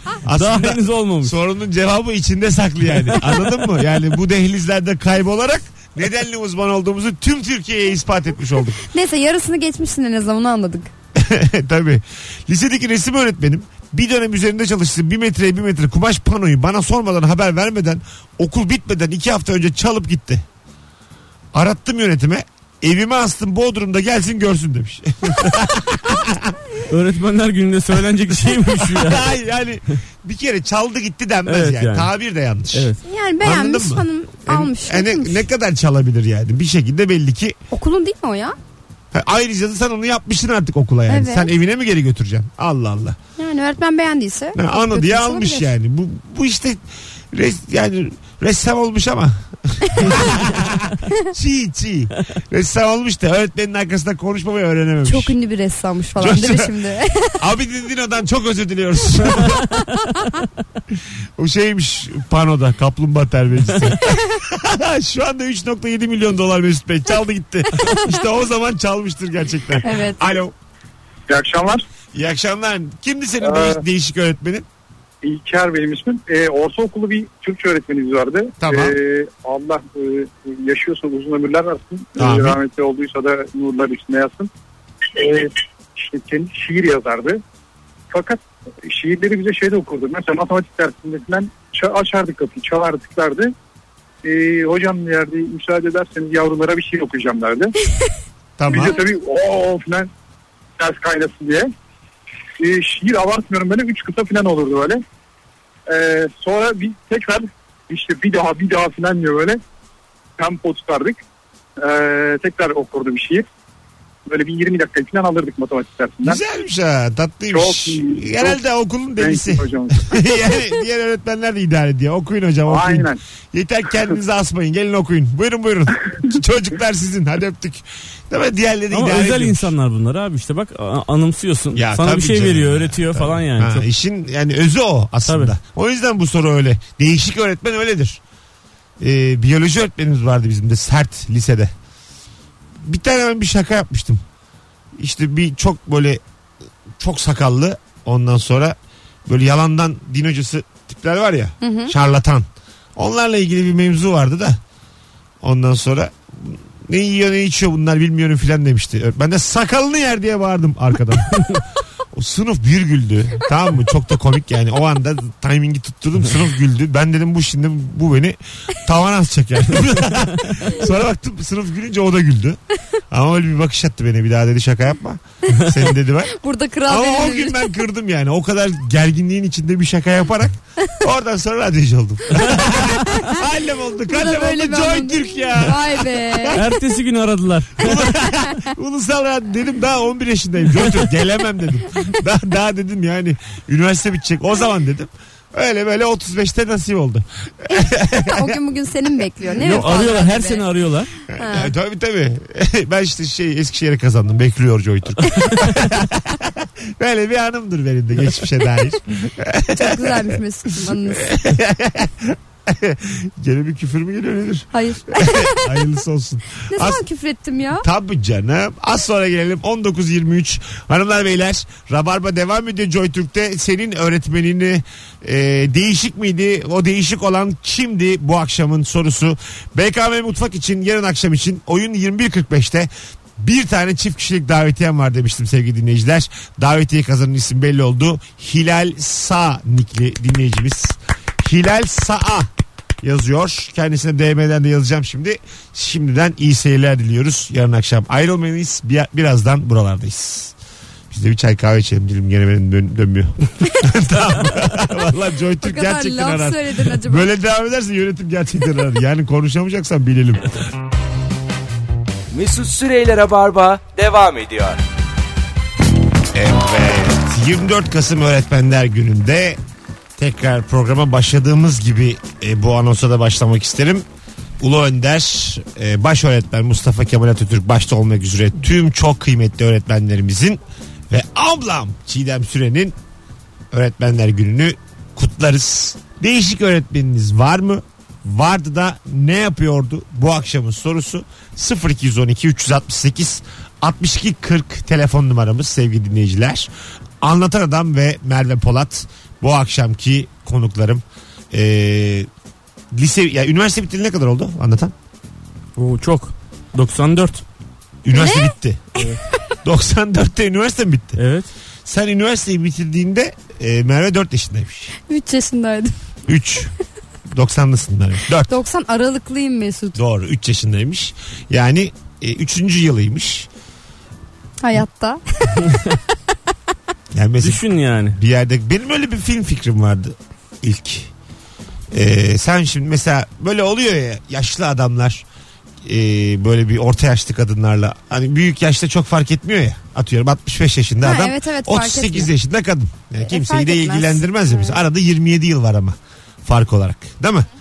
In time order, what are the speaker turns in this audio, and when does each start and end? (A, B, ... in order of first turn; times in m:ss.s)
0:00.2-0:08.8 A
0:00.3-0:01.4 B
0:08.8-0:10.9 C
0:11.2-0:20.4 A
0:21.5-0:26.6 A
0:26.9-0:29.3 B
0:28.7-0:37.6 A
0:31.5-0:32.1 B
0:32.7-0:33.0 B
0:33.0-0:35.5 C
0:37.7-0:38.6 C
0:39.1-0:43.2 A
0:41.1-0:41.5 C
0:43.4-0:45.7 C
0:44.6-0:55.4 A
0:55.0-0:57.4 C
0:56.2-0:56.7 A
0:57.4-0:59.7 A
1:01.0-1:10.6 A
1:09.8-1:10.4 C
1:11.3-1:11.8 D
1:12.1-1:14.7 A
1:13.4-1:13.8 D
1:15.2-1:24.5 D
1:18.6-1:19.0 A
1:22.2-1:22.6 A
1:25.2-1:27.4 D
1:28.1-1:33.5 D
1:34.2-1:37.7 D
1:38.6-1:39.0 A
1:38.7-1:40.1 D
1:40.8-1:41.7 D
1:42.6-1:45.0 D
1:45.9-1:49.6 D
1:50.4-1:51.2 D
1:51.8-1:53.4 D
1:54.3-1:56.4 D
1:56.2-2:09.7 A
1:57.5-1:58.6 D
1:59.2-2:00.2 D
2:02.7-2:03.2 D
2:08.9-2:13.8 B
2:11.8-2:18.2 A
2:15.3-2:15.5 B
2:19.0-2:21.7 A
2:22.8-2:24.2 A
2:25.0-2:26.2 A
2:27.0-2:34.6 A
2:31.6-2:31.9 C
2:35.4-2:41.5 A
2:42.1-2:52.6 A
2:53.1-2:56.3 A
2:56.3-2:57.8 C
2:56.9-3:06.7 A
3:03.1-3:03.4 C
3:04.1-3:06.6 C
3:06.5-3:08.1 B
3:07.8-3:18.6 A
3:17.7-3:20.7 C
3:19.6-3:20.0 A
3:19.6-3:21.1 B
3:21.3-3:37.0 A
3:21.3-3:21.7 C
3:29.7-3:31.3 C
3:34.7-3:35.8 C
3:36.6-3:37.8 C
3:37.8-4:02.5 A
4:03.0-4:10.6 A
4:11.1-4:20.6 A
4:15.6-4:17.3 C
4:22.3-4:24.8 E
4:26.3-4:29.6 A
4:30.2-4:34.0 A
4:34.6-4:43.0 A
4:43.7-4:56.7 A
4:57.2-5:02.3 A
5:02.9-5:04.9 A
5:05.8-5:07.4 B
5:08.0-5:08.9 A
5:08.1-5:08.5 C
5:09.6-5:11.2 A
5:11.2-5:11.5 B
5:11.8-5:14.9 A
5:15.0-5:16.0 C
5:16.3-5:16.7 A
5:17.3-5:18.5 A
5:18.5-5:20.0 C
5:20.0-5:23.5 A
5:24.6-5:25.8 C
5:27.1-5:31.1 A
5:27.4-5:28.2 B
5:31.9-5:35.2 A
5:35.8-5:47.5 A
5:41.0-5:42.3 C
5:43.2-5:44.8 C